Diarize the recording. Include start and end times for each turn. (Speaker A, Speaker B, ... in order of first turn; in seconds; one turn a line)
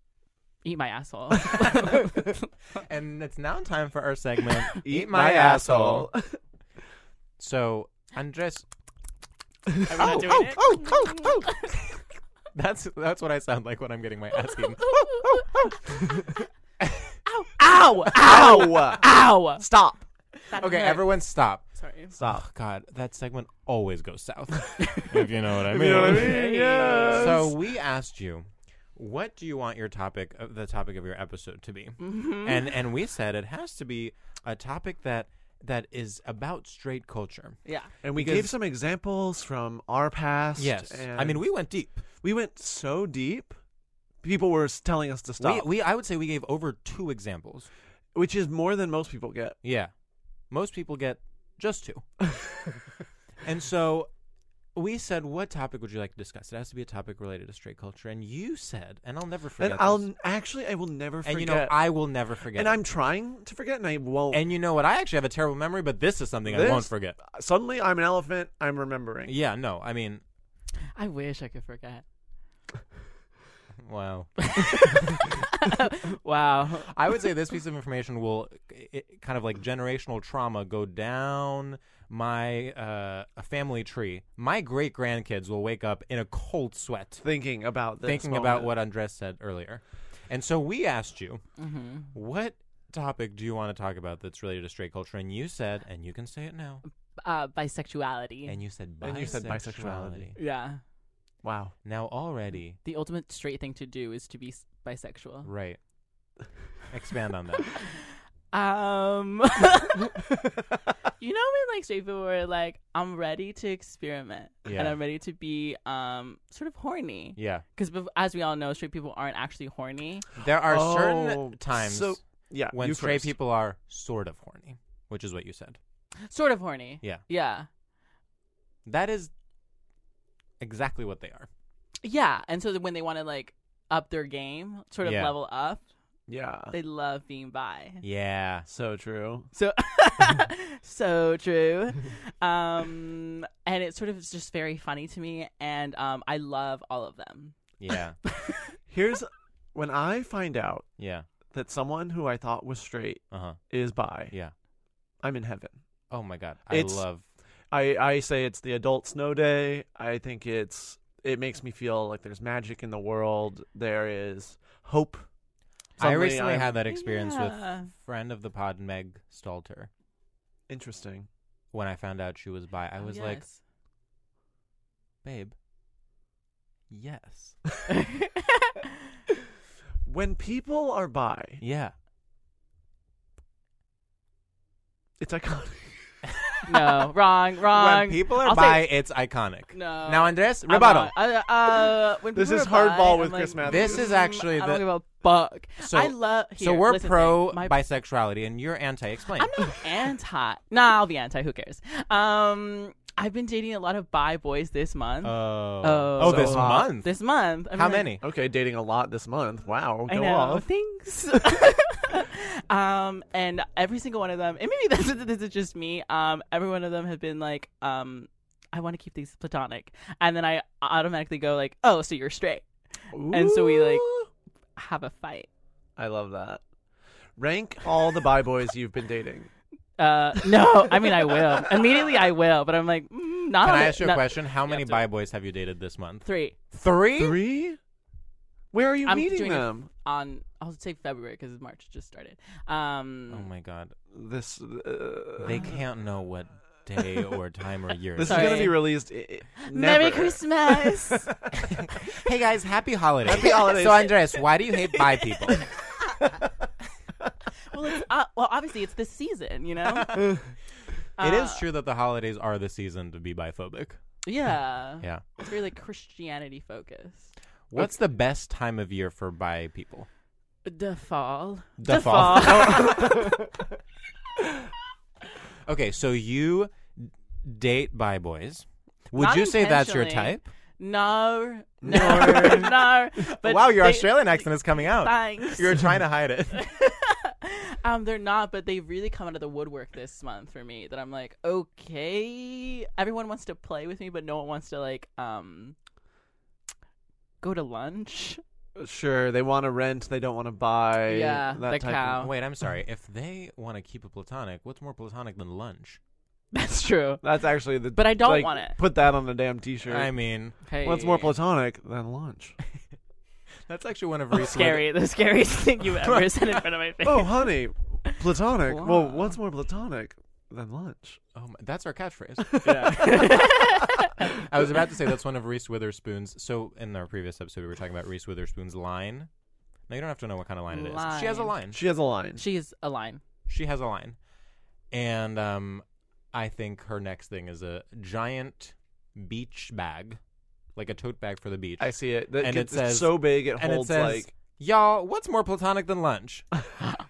Speaker A: 0.6-2.5
Speaker B: 2.8-6.1
Speaker C: 4.8-6.4
Speaker B: 7.4-8.6
Speaker A: 9.9-11.7
Speaker B: 9.9-11.8
Speaker B: 12.5-15.7
Speaker A: 14.5-15.7
Speaker B: 16.8-17.1
Speaker A: 17.2-19.7
Speaker C: 18.1-20.0
Speaker B: 20.4-21.7
Speaker A: 20.5-22.1
Speaker C: 22.1-22.4
Speaker B: 22.2-26.5
Speaker A: 24.8-27.4
Speaker C: 25.6-27.5
Speaker B: 27.0-37.5
Speaker A: 32.0-32.7
Speaker A: 37.6-37.9
Speaker C: 38.0-41.5
Speaker B: 38.1-38.5
Speaker B: 40.6-42.0
Speaker C: 42.2-43.5
Speaker C: 44.2-45.7
Speaker B: 45.4-47.7
Speaker C: 48.1-49.6
Speaker B: 49.6-49.9
Speaker B: 50.5-52.0
Speaker B: 53.4-54.1
Speaker B: 54.7-60.1
Speaker C: 59.6-64.5
Speaker B: 61.2-62.8
Speaker B: 64.3-67.2
Speaker C: 66.4-69.3
Speaker B: 69.3-70.2
Speaker A: 70.9-72.0
Speaker B: 73.8-74.4
Speaker A: 74.4-77.3
Speaker B: 76.8-87.2
Speaker C: 87.2-88.7
Speaker B: 88.0-91.4
Speaker A: 91.6-92.1
Speaker B: 92.1-96.8
Speaker A: 97.2-98.5
Speaker B: 98.5-100.3
Speaker C: 99.0-100.3
Speaker A: 100.3-100.8
Speaker C: 101.4-101.7
Speaker B: 101.8-102.8
Speaker A: 102.8-105.5
Speaker B: 105.4-105.8
Speaker B: 106.9-107.7
Speaker A: 108.5-110.1
Speaker A: 111.2-120.2
Speaker B: 114.6-115.0
Speaker B: 117.3-117.6
Speaker B: 120.4-125.8
Speaker C: 120.6-123.3
Speaker A: 126.2-127.7
Speaker B: 128.8-129.3
Speaker B: 130.6-131.5
Speaker A: 132.0-135.8
Speaker B: 135.0-135.3
Speaker C: 136.3-136.7
Speaker A: 136.7-138.0
Speaker B: 138.0-138.7
Speaker C: 138.7-139.5
Speaker A: 139.5-147.7
Speaker B: 147.8-148.2
Speaker A: 148.2-148.7
Speaker C: 148.9-150.9
Speaker B: 151.0-151.3
Speaker C: 151.5-154.3
Speaker B: 153.3-153.6
Speaker B: 154.1-154.5
Speaker C: 155.2-155.8
Speaker B: 156.1-157.2
Speaker C: 156.7-157.1
Speaker C: 157.7-165.2
Speaker C: 166.0-166.8
Speaker B: 166.0-169.9
Speaker A: 166.8-167.9
Speaker C: 170.7-171.3
Speaker B: 171.7-173.4
Speaker A: 173.0-173.6
Speaker B: 175.2-175.5
Speaker B: 176.9-177.5
Speaker A: 177.9-178.8
Speaker C: 180.1-181.6
Speaker B: 181.6-181.9
Speaker C: 185.2-186.2
Speaker A: 186.7-188.9
Speaker B: 187.7-191.1
Speaker A: 189.7-197.8
Speaker C: 192.3-194.1
Speaker B: 193.6-194.9
Speaker B: 195.8-199.5
Speaker A: 199.4-208.2
Speaker B: 205.2-207.1
Speaker C: 206.2-207.0
Speaker B: 207.7-208.2
Speaker C: 208.2-210.7
Speaker A: 210.1-222.7
Speaker C: 223.1-224.3
Speaker A: 223.2-224.1
Speaker A: 224.8-225.5
Speaker C: 226.0-226.6
Speaker C: 227.4-229.5
Speaker A: 230.0-235.1
Speaker B: 233.6-237.4
Speaker A: 236.2-236.6
Speaker C: 237.1-237.8
Speaker C: 238.7-239.9
Speaker A: 239.1-243.5
Speaker B: 243.3-243.9
Speaker C: 244.1-245.7
Speaker B: 245.4-248.7
Speaker C: 248.2-251.2
Speaker A: 248.2-248.9
Speaker A: 249.6-251.3
Speaker B: 251.7-255.7
Speaker C: 253.2-254.4
Speaker A: 253.3-253.7
Speaker A: 254.8-255.7
Speaker A: 257.7-260.4
Speaker A: 261.2-261.7
Speaker B: 261.2-264.0
Speaker A: 264.2-267.3
Speaker B: 265.0-265.3
Speaker B: 267.7-270.1
Speaker A: 270.6-273.3
Speaker B: 271.8-273.1
Speaker C: 272.6-273.2
Speaker B: 275.6-280.5
Speaker A: 279.1-285.9
Speaker C: 281.8-282.8
Speaker B: 281.9-282.6
Speaker B: 283.2-286.6
Speaker A: 286.5-295.8
Speaker A: 297.4-298.4
Speaker C: 298.8-302.2
Speaker A: 301.1-302.3
Speaker B: 302.2-306.0
Speaker A: 306.5-308.8
Speaker C: 307.2-310.2
Speaker B: 309.8-310.7
Speaker A: 310.6-311.3
Speaker C: 310.8-312.6
Speaker B: 313.7-314.9
Speaker A: 314.3-317.5
Speaker B: 316.0-316.4
Speaker C: 317.0-321.2
Speaker A: 318.1-319.4
Speaker B: 321.3-323.6
Speaker C: 322.6-323.1
Speaker A: 322.6-324.3
Speaker B: 324.2-329.3
Speaker B: 329.9-331.8
Speaker A: 330.7-331.6
Speaker C: 331.7-332.4
Speaker A: 332.4-333.2
Speaker B: 333.5-334.2
Speaker B: 334.9-340.2
Speaker B: 340.8-346.4
Speaker C: 341.8-344.3